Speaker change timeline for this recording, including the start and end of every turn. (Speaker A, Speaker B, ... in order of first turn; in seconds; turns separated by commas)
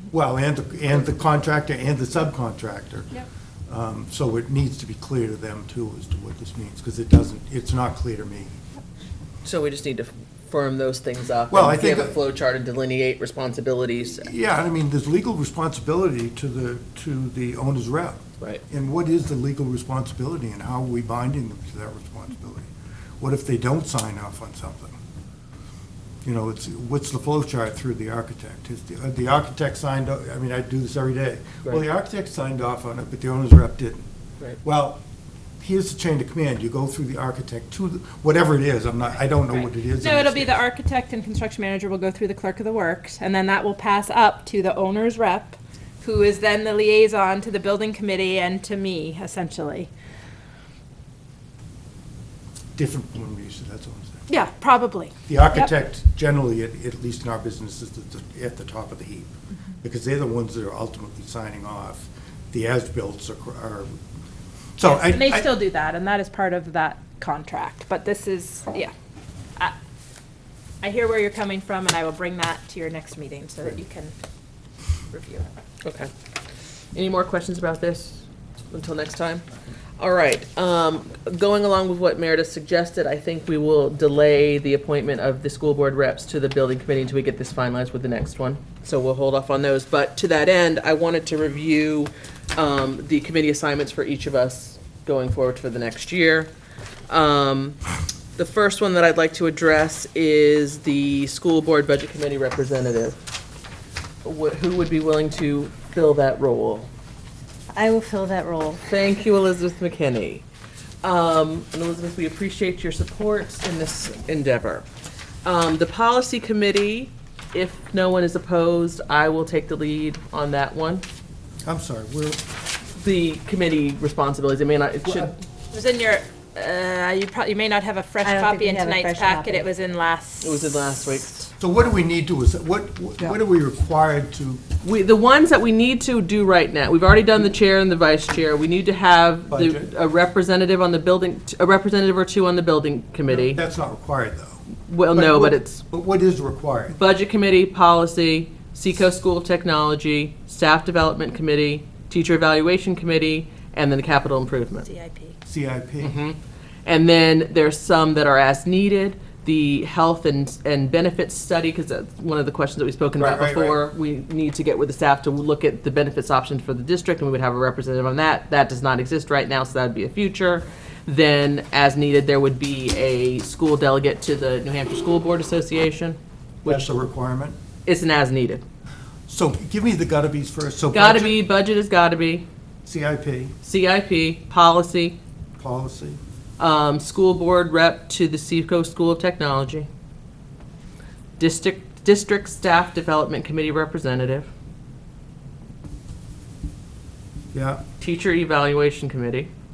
Speaker A: 0.1-8.5, Speaker B: 9.4-14.3, Speaker A: 11.5-12.2, Speaker A: 14.2-25.0, Speaker A: 26.2-34.0, Speaker A: 34.6-35.0, Speaker A: 35.6-40.6, Speaker C: 40.0-49.9, Speaker A: 52.8-54.2, Speaker C: 54.3-55.7, Speaker A: 55.3-59.3, Speaker A: 59.8-63.9, Speaker A: 64.8-65.5, Speaker C: 64.8-68.9, Speaker C: 70.8-74.1, Speaker C: 75.1-75.5, Speaker B: 75.8-76.1, Speaker B: 76.9-79.5, Speaker B: 80.0-96.5, Speaker B: 97.1-97.8, Speaker B: 98.3-103.2, Speaker B: 104.2-106.9, Speaker D: 107.7-108.8, Speaker B: 108.9-110.4, Speaker B: 111.0-114.8, Speaker B: 115.4-121.0, Speaker A: 121.6-122.4, Speaker B: 123.0-125.4, Speaker C: 125.7-130.7, Speaker D: 128.2-129.6, Speaker B: 130.4-131.5, Speaker A: 131.6-134.6, Speaker B: 134.8-143.6, Speaker A: 139.5-139.9, Speaker A: 143.3-146.9, Speaker B: 144.9-145.8, Speaker B: 146.9-154.9, Speaker C: 154.8-155.3, Speaker A: 155.4-156.2, Speaker B: 156.0-176.9, Speaker A: 163.2-163.8, Speaker A: 176.6-177.6, Speaker B: 177.8-178.6, Speaker A: 179.3-181.3, Speaker B: 180.9-182.4, Speaker A: 182.8-183.5, Speaker B: 183.6-185.2, Speaker A: 185.6-186.2, Speaker B: 186.6-189.9, Speaker B: 191.4-194.5, Speaker A: 197.5-197.8, Speaker B: 198.0-199.5